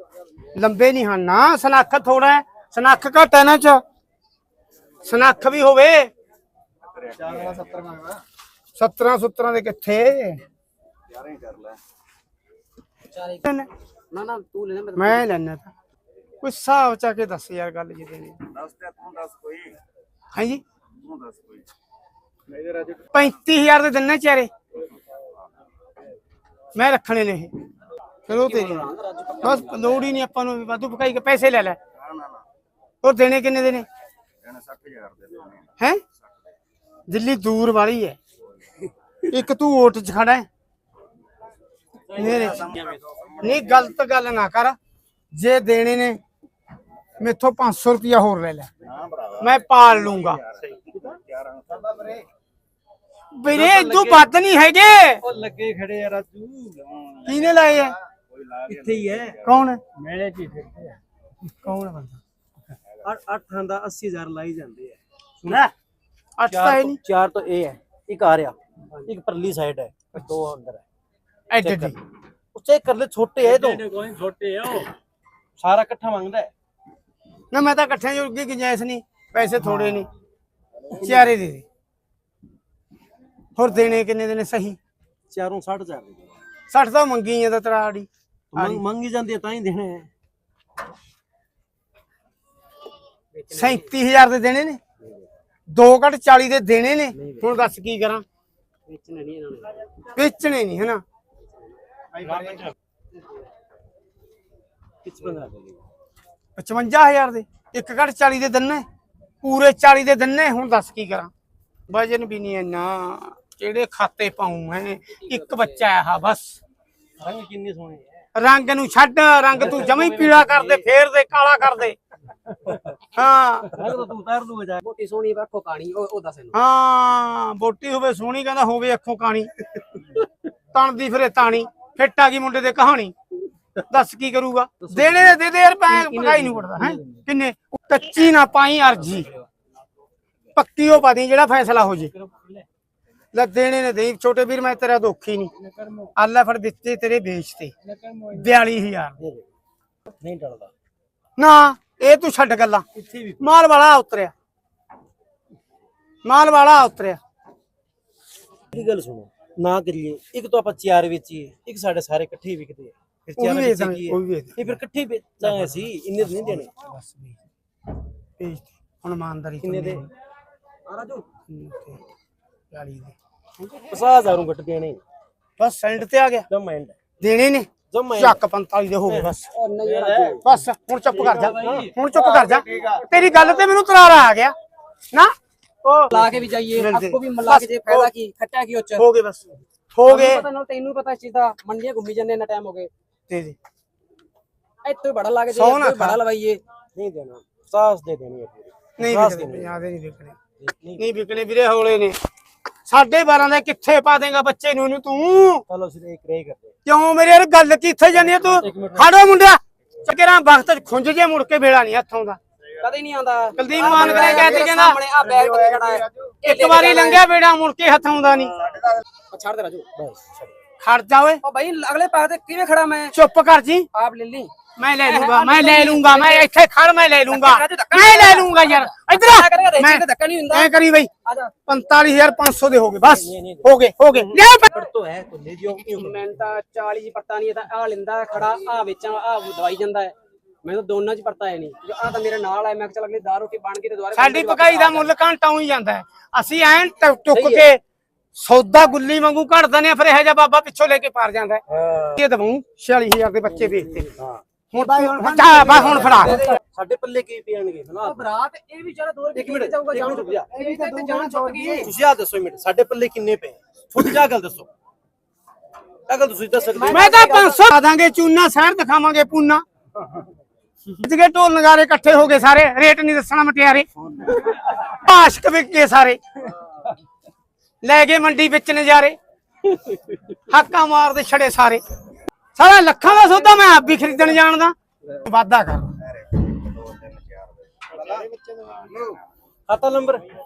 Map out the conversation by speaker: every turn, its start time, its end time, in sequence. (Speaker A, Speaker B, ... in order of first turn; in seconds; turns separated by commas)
Speaker A: 0.5-3.8, Speaker A: 5.0-6.1, Speaker B: 6.9-8.1, Speaker A: 8.8-10.4, Speaker B: 11.1-11.8, Speaker C: 13.1-13.4, Speaker C: 14.1-15.3, Speaker A: 14.9-15.7, Speaker A: 16.4-18.4, Speaker B: 18.6-19.8, Speaker A: 20.3-20.6, Speaker B: 21.0-21.6, Speaker B: 22.6-22.9, Speaker A: 23.1-24.5, Speaker A: 26.7-27.5, Speaker C: 28.3-30.1, Speaker A: 28.3-28.9, Speaker A: 29.4-31.8, Speaker A: 33.0-33.9, Speaker B: 34.5-35.6, Speaker A: 37.1-38.2, Speaker A: 39.3-40.5, Speaker A: 42.1-42.7, Speaker D: 42.1-43.0, Speaker A: 43.4-44.8, Speaker A: 45.3-46.2, Speaker A: 47.2-48.7, Speaker B: 48.9-49.3, Speaker A: 49.4-50.4, Speaker D: 50.7-51.1, Speaker B: 51.2-52.1, Speaker A: 53.3-55.2, Speaker D: 53.5-54.3, Speaker D: 55.2-56.9, Speaker A: 57.2-58.0, Speaker D: 58.6-59.4, Speaker A: 59.4-59.8, Speaker D: 60.0-60.9, Speaker B: 60.2-60.6, Speaker A: 61.6-62.2, Speaker D: 63.0-65.7, Speaker A: 66.4-67.0, Speaker D: 66.5-70.8, Speaker A: 71.5-72.0, Speaker D: 71.6-71.9, Speaker D: 72.5-74.9, Speaker B: 74.2-74.5, Speaker D: 75.6-76.5, Speaker A: 77.5-80.1, Speaker D: 79.7-80.0, Speaker D: 81.0-81.3, Speaker A: 81.0-81.6, Speaker A: 83.5-84.8, Speaker D: 85.3-86.3, Speaker A: 86.7-88.8, Speaker D: 88.5-90.1, Speaker C: 93.3-93.9, Speaker A: 93.5-94.8, Speaker D: 95.0-95.2, Speaker A: 95.7-98.2, Speaker C: 98.9-99.8, Speaker A: 100.1-101.0, Speaker D: 102.2-102.7, Speaker D: 105.0-105.8, Speaker A: 106.6-108.8, Speaker A: 109.4-111.3, Speaker A: 111.9-116.6, Speaker C: 115.2-115.8, Speaker D: 117.2-118.2, Speaker A: 118.3-122.0, Speaker D: 119.5-120.9, Speaker D: 122.5-122.9, Speaker A: 123.1-123.8, Speaker D: 123.7-124.8, Speaker C: 124.8-126.5, Speaker A: 126.5-129.5, Speaker A: 130.7-133.1, Speaker A: 133.8-139.3, Speaker D: 134.9-135.4, Speaker C: 135.9-137.2, Speaker A: 140.5-142.1, Speaker A: 143.3-145.5, Speaker A: 146.2-147.7, Speaker A: 148.2-149.2, Speaker D: 149.2-149.5, Speaker D: 150.2-150.7, Speaker A: 151.4-152.8, Speaker D: 152.9-153.5, Speaker A: 153.4-154.3, Speaker A: 156.2-157.2, Speaker D: 158.7-166.7, Speaker A: 163.4-164.7, Speaker A: 165.4-167.4, Speaker A: 168.4-170.1, Speaker D: 169.6-170.1, Speaker D: 170.9-171.2, Speaker A: 171.5-172.0, Speaker A: 172.7-173.1, Speaker D: 173.6-175.0, Speaker A: 175.6-176.5, Speaker D: 176.5-177.0, Speaker A: 177.2-179.5, Speaker D: 177.9-178.4, Speaker D: 179.1-180.4, Speaker C: 179.5-180.5, Speaker A: 180.4-184.5, Speaker D: 181.2-183.0, Speaker A: 185.8-188.1, Speaker C: 186.1-189.1, Speaker A: 188.9-190.4, Speaker C: 190.1-192.9, Speaker A: 193.3-193.6, Speaker C: 194.8-196.6, Speaker A: 195.5-196.2, Speaker D: 196.9-199.7, Speaker A: 199.0-200.4, Speaker D: 200.6-201.0, Speaker A: 201.0-202.1, Speaker A: 202.8-205.6, Speaker D: 205.7-206.7, Speaker A: 206.8-212.4, Speaker D: 208.3-209.1, Speaker C: 212.8-217.2, Speaker A: 213.6-215.0, Speaker A: 216.4-218.6, Speaker C: 219.3-219.9, Speaker D: 219.9-220.5, Speaker A: 220.8-221.4, Speaker C: 221.4-223.1, Speaker A: 223.1-223.9, Speaker C: 223.9-226.5, Speaker A: 224.8-231.1, Speaker C: 227.3-230.7, Speaker C: 231.2-231.6, Speaker A: 231.7-234.7, Speaker D: 233.0-236.3, Speaker C: 235.9-245.1, Speaker A: 244.1-247.8, Speaker D: 247.3-247.6, Speaker A: 248.3-251.6, Speaker D: 251.7-252.2, Speaker A: 252.1-254.1, Speaker D: 253.5-254.4, Speaker A: 254.7-256.5, Speaker C: 254.8-256.6, Speaker D: 255.7-258.2, Speaker C: 258.0-261.9, Speaker D: 259.3-260.5, Speaker A: 261.1-261.7, Speaker D: 261.7-264.7, Speaker D: 266.1-267.1, Speaker C: 266.6-267.6, Speaker A: 266.9-269.6, Speaker A: 270.9-273.9, Speaker D: 274.1-274.5, Speaker A: 274.6-276.2, Speaker A: 277.8-279.2, Speaker A: 280.5-281.8, Speaker A: 282.6-285.9, Speaker B: 286.8-287.4, Speaker D: 289.7-290.2